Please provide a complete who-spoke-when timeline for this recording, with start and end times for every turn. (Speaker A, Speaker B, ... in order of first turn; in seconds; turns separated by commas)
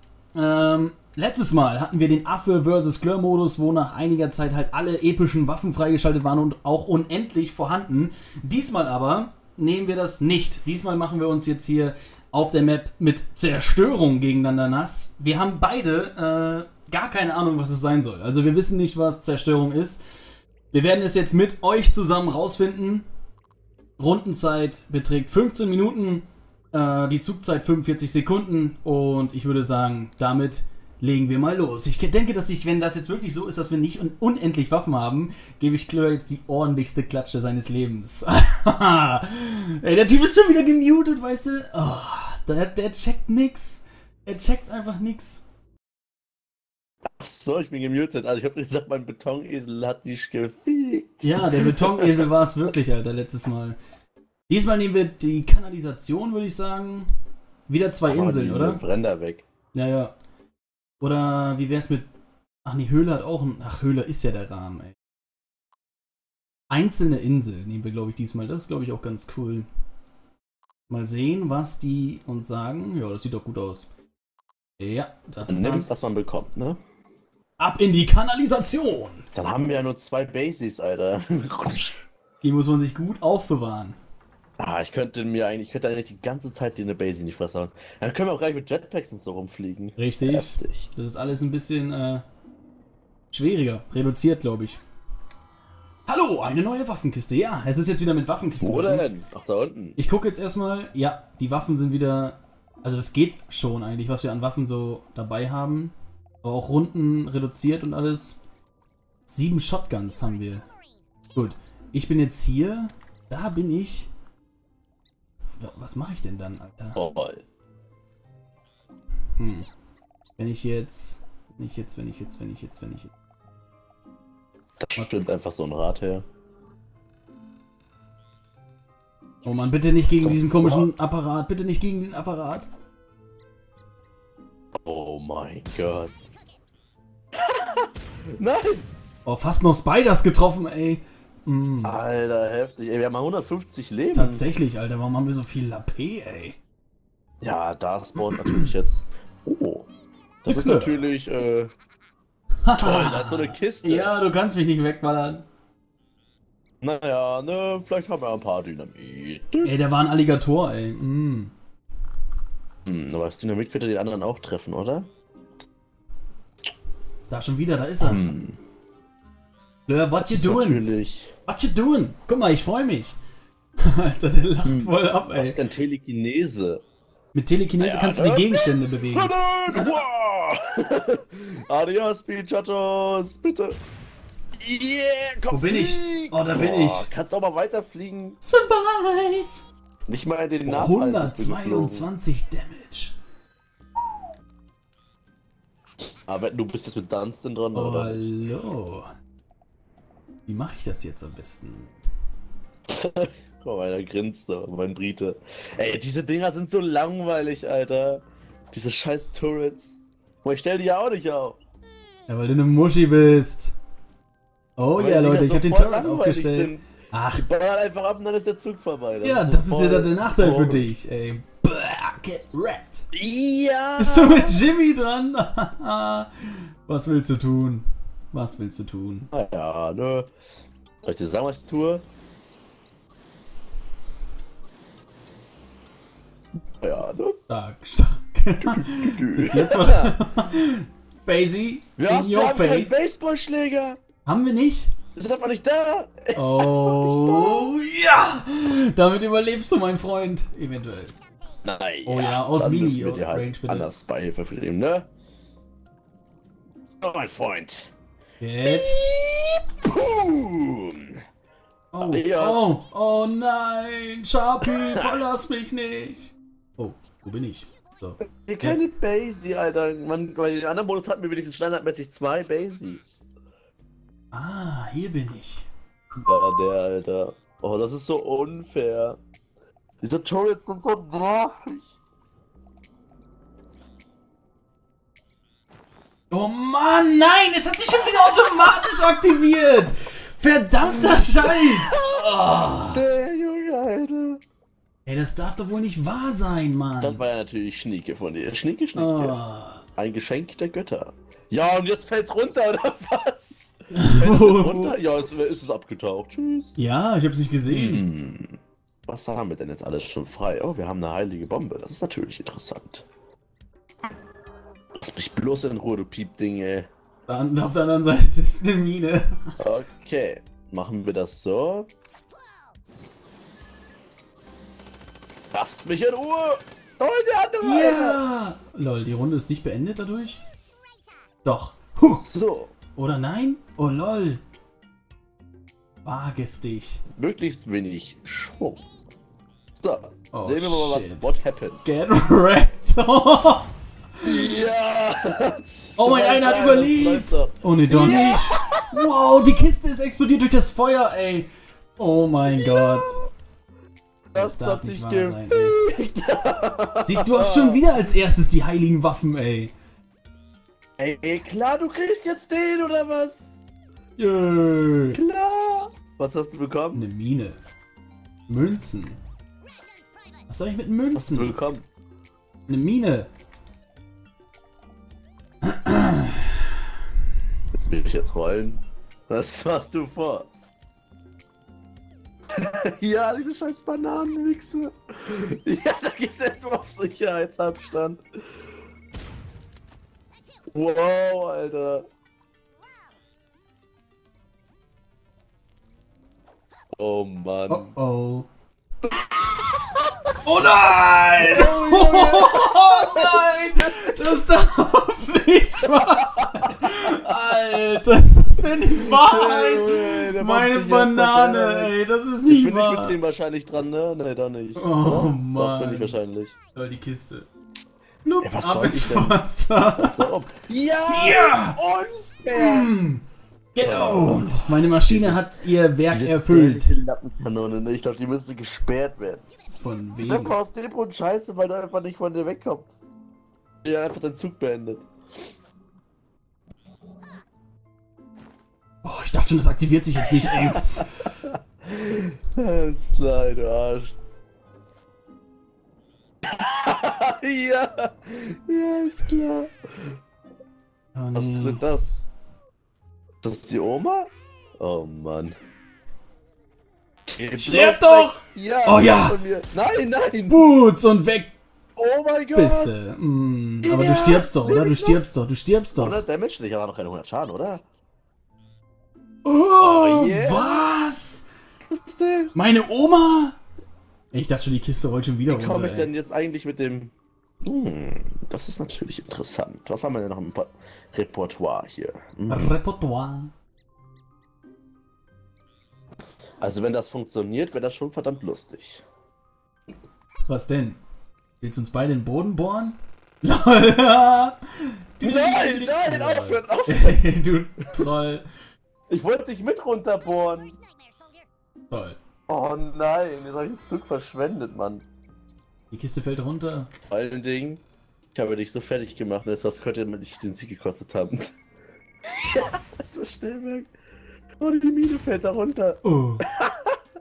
Speaker A: 0.3-20.0, Speaker A: 20.7-23.1, Speaker A: 24.0-45.4, Speaker B: 47.2-52.3, Speaker A: 51.2-53.8, Speaker A: 54.5-57.1, Speaker A: 57.7-58.8, Speaker B: 58.1-59.4, Speaker A: 59.7-60.1, Speaker A: 61.0-62.1, Speaker A: 62.6-64.9, Speaker A: 66.7-69.7, Speaker A: 70.9-73.9, Speaker A: 74.8-76.0, Speaker B: 75.5-76.8, Speaker A: 77.6-79.3, Speaker B: 79.3-82.1, Speaker A: 82.4-84.0, Speaker B: 84.6-90.8, Speaker A: 90.0-92.2, Speaker A: 93.3-94.8, Speaker A: 96.1-99.1, Speaker B: 98.6-100.0, Speaker A: 100.0-108.4, Speaker A: 109.3-110.7, Speaker A: 111.3-114.1, Speaker A: 115.6-117.0, Speaker B: 117.0-117.4, Speaker A: 119.4-119.7, Speaker A: 120.4-123.1, Speaker B: 124.8-126.2, Speaker A: 129.4-132.7, Speaker B: 130.2-130.9, Speaker B: 134.8-136.1, Speaker B: 137.3-138.9, Speaker A: 139.2-142.0, Speaker B: 141.8-144.4, Speaker A: 144.1-146.6, Speaker B: 147.4-149.9, Speaker A: 148.3-148.7, Speaker B: 150.4-151.7, Speaker A: 150.5-151.0, Speaker A: 152.7-155.4, Speaker B: 152.8-154.1, Speaker B: 156.8-159.7, Speaker A: 159.6-161.5, Speaker B: 162.8-165.1, Speaker A: 167.3-168.2, Speaker B: 168.0-168.6, Speaker A: 169.9-170.8, Speaker B: 170.2-171.3, Speaker A: 171.5-173.2, Speaker A: 173.8-175.6, Speaker B: 174.7-176.8, Speaker A: 177.3-179.9, Speaker B: 177.8-183.8, Speaker B: 184.6-188.4, Speaker A: 185.5-187.1, Speaker A: 188.4-189.6, Speaker B: 190.1-192.1, Speaker A: 190.7-193.2, Speaker B: 196.2-198.3, Speaker A: 197.7-199.1, Speaker A: 200.5-201.9, Speaker B: 202.9-211.6, Speaker A: 212.3-213.7, Speaker A: 214.8-217.5, Speaker B: 215.0-220.9, Speaker A: 219.2-223.1, Speaker B: 223.1-224.6, Speaker A: 224.0-229.3, Speaker B: 229.3-230.3, Speaker B: 231.0-232.0, Speaker B: 236.8-237.4, Speaker A: 237.5-243.0, Speaker B: 238.6-240.1, Speaker B: 242.0-244.0, Speaker A: 244.2-244.9, Speaker B: 245.1-247.7, Speaker A: 246.3-251.2, Speaker B: 251.6-255.1, Speaker A: 252.1-253.9, Speaker B: 256.9-257.9, Speaker A: 258.4-259.0, Speaker B: 258.6-261.2, Speaker A: 261.9-268.8, Speaker B: 262.0-262.8, Speaker B: 264.6-265.2, Speaker B: 268.4-273.2, Speaker A: 274.3-275.7, Speaker B: 276.1-279.2, Speaker B: 280.0-281.9, Speaker A: 286.3-293.0, Speaker B: 290.8-292.2, Speaker B: 292.9-294.4, Speaker A: 295.1-297.2, Speaker B: 297.0-299.4, Speaker A: 298.9-299.8, Speaker B: 299.9-306.8, Speaker A: 303.9-305.0, Speaker A: 306.8-308.1, Speaker B: 307.7-313.1, Speaker B: 314.9-316.9, Speaker A: 317.3-319.6, Speaker B: 319.6-321.9, Speaker B: 325.5-328.2, Speaker A: 327.6-330.4, Speaker A: 331.4-332.2, Speaker B: 332.1-332.7, Speaker A: 332.9-334.4, Speaker A: 336.1-337.0, Speaker B: 337.1-338.8, Speaker B: 339.7-341.9, Speaker A: 340.3-344.3, Speaker B: 344.2-349.1, Speaker A: 346.0-353.2, Speaker B: 352.5-353.3, Speaker B: 354.3-357.8, Speaker A: 354.4-355.8, Speaker A: 357.0-359.7, Speaker B: 361.0-363.6, Speaker A: 364.2-365.2, Speaker B: 365.1-367.1, Speaker A: 366.9-367.6, Speaker A: 368.5-369.2, Speaker A: 370.5-371.6, Speaker B: 371.2-371.9, Speaker A: 372.7-373.3, Speaker A: 375.6-376.8, Speaker B: 377.7-380.5, Speaker B: 382.5-388.4, Speaker B: 390.7-392.1, Speaker B: 397.0-397.9, Speaker A: 397.7-398.5, Speaker B: 399.0-400.3, Speaker A: 400.4-413.2, Speaker B: 401.4-404.4, Speaker B: 405.9-407.8, Speaker B: 408.9-411.9, Speaker B: 412.4-416.6, Speaker A: 414.8-416.2, Speaker A: 416.7-417.4, Speaker A: 418.2-420.3, Speaker B: 418.4-419.4, Speaker B: 420.0-422.9, Speaker A: 421.1-421.8, Speaker A: 422.5-423.2, Speaker A: 423.8-426.9, Speaker B: 423.8-425.6, Speaker B: 426.1-429.4, Speaker A: 429.8-430.6, Speaker B: 430.2-433.0, Speaker B: 433.8-435.1, Speaker A: 439.0-441.3, Speaker B: 440.2-444.2, Speaker B: 446.4-450.2, Speaker A: 451.1-451.8, Speaker B: 451.3-452.2, Speaker B: 453.4-455.6, Speaker B: 457.3-460.7, Speaker A: 457.5-459.4, Speaker A: 460.5-461.5, Speaker B: 461.9-462.9, Speaker A: 462.6-466.2, Speaker B: 463.8-465.2, Speaker B: 466.0-467.9, Speaker A: 469.4-471.4, Speaker B: 469.8-470.9, Speaker B: 471.9-472.5, Speaker A: 472.6-473.6, Speaker A: 474.3-476.1, Speaker B: 475.5-482.7, Speaker A: 482.5-483.5, Speaker B: 486.6-489.0, Speaker A: 490.5-491.0, Speaker A: 491.6-498.5, Speaker B: 495.2-497.2, Speaker B: 499.1-500.8, Speaker A: 501.9-502.2, Speaker B: 502.5-505.1, Speaker A: 505.9-506.9, Speaker B: 507.1-507.8, Speaker B: 508.3-511.5, Speaker B: 512.3-513.9, Speaker B: 514.6-517.0, Speaker A: 516.0-516.5